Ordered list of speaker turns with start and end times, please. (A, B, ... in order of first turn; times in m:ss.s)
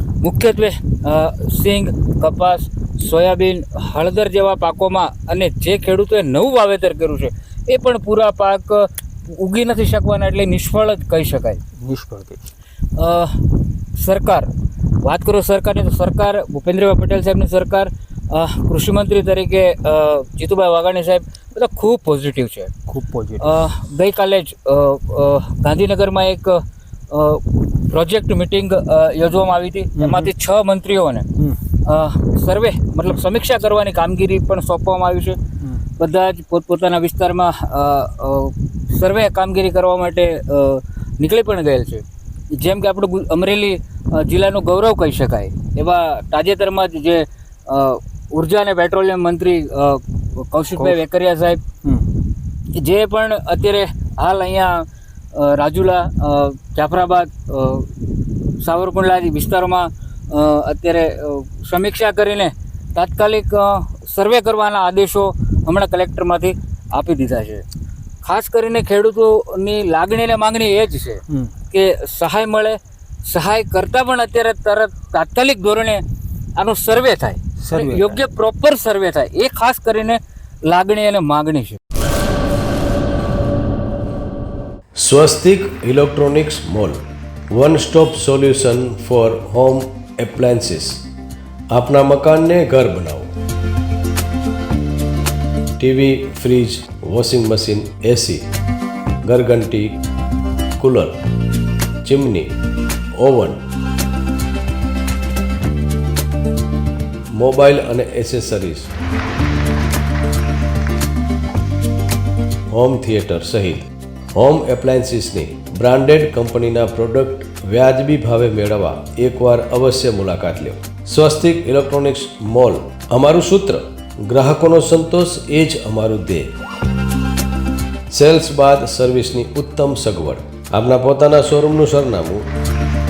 0:00.2-0:11.6 A
0:11.8-0:12.5 B
0:12.9-0:22.7 A
0:22.9-0:23.6 B
0:23.4-0:35.4 A
0:30.0-0:30.3 B
0:36.0-0:51.6 A
0:52.7-1:07.6 A
1:08.2-1:16.0 A
1:16.6-1:21.8 A
1:17.6-1:18.2 B
1:25.0-1:31.0 C
1:31.7-1:33.3 C
1:35.8-1:38.4 C
1:39.3-1:40.0 C
1:40.8-1:41.2 C
1:42.0-1:42.5 C
1:43.2-1:43.6 C
1:47.4-1:48.9 C
1:52.7-2:06.5 C
2:08.1-2:12.4 C